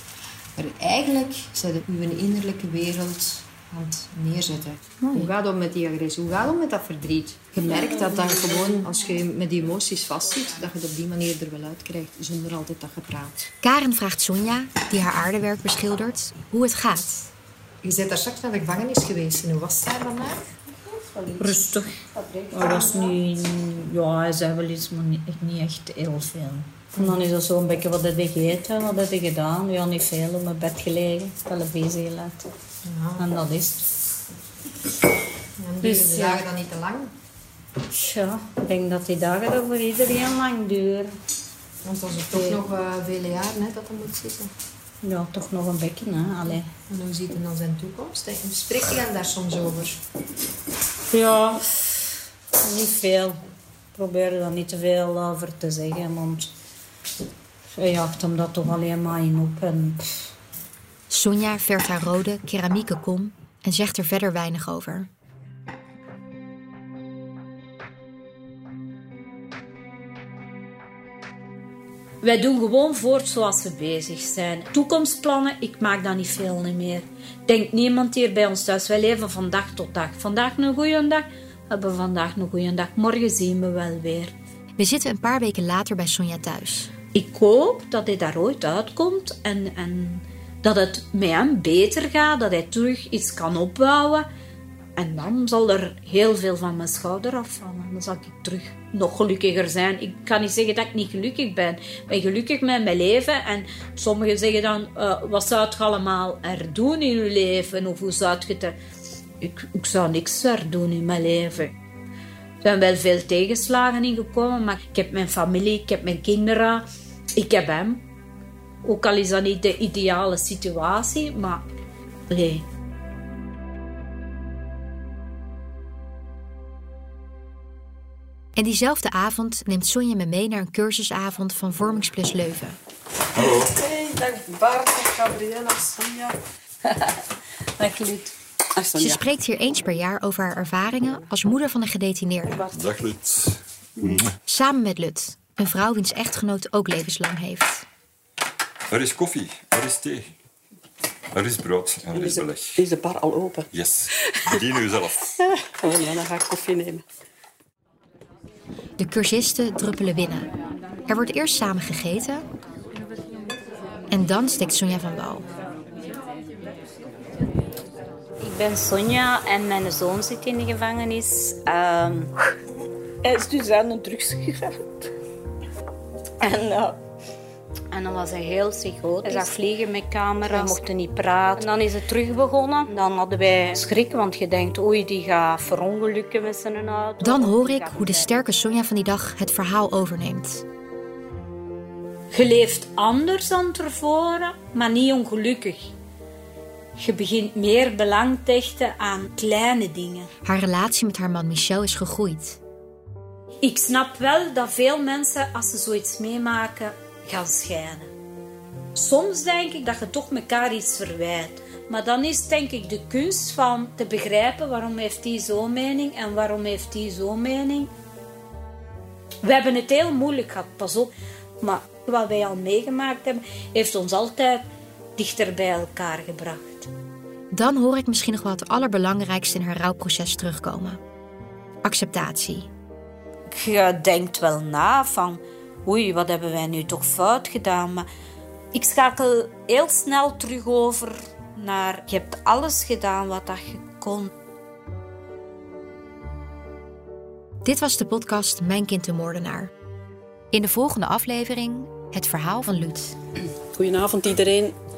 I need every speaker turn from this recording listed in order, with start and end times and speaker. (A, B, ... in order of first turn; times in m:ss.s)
0:00.6-0:13.5 A
0:13.6-0:17.3 B
0:17.8-0:20.4 A
0:21.4-0:32.4 C
0:22.5-0:22.9 A
0:32.8-0:33.3 A
0:33.2-0:33.8 C
0:35.6-0:37.1 A
0:35.8-0:36.4 C
0:37.9-0:41.2 C
0:41.8-0:44.5 A
0:45.0-0:46.7 C
0:46.8-0:50.0 A
0:51.1-0:51.6 C
0:52.6-0:53.4 C
0:53.9-0:56.5 C
0:57.7-1:00.2 C
1:01.1-1:05.1 B
1:12.2-1:24.3 C
1:24.8-1:26.9 B
1:27.1-1:34.3 C
1:35.0-1:48.8 C
1:49.4-1:51.7 C
1:52.6-1:58.0 C
1:58.8-2:01.6 C
2:02.3-2:02.6 C
2:08.6-2:12.8 B
2:13.4-2:16.3 D
2:17.8-2:18.3 C
2:18.8-2:19.2 D
2:19.0-2:22.7 B
2:22.7-2:24.3 E
2:24.4-2:27.8 B
2:28.9-2:30.3 E
2:31.3-2:32.8 E
2:32.1-2:33.7 D
2:33.7-2:35.3 E
2:35.3-2:37.0 D
2:39.0-2:40.5 B
2:41.1-2:42.4 B
2:44.1-2:45.5 B
2:48.4-2:52.3 C
2:53.2-2:55.1 C
2:56.4-2:57.0 C
2:57.9-3:08.4 C
3:07.2-3:10.6 B
3:12.3-3:15.9 C
3:17.0-3:20.3 C
3:20.4-3:22.6 B
3:23.6-3:28.1 C
3:28.9-3:37.9 C
3:39.4-3:44.6 C
3:45.2-3:46.9 C
3:47.5-3:51.0 B
3:51.8-3:52.7 B
3:53.5-3:58.1 C
3:58.7-4:04.3 C
4:07.6-4:09.7 B
4:10.5-4:13.2 B
4:13.7-4:14.7 D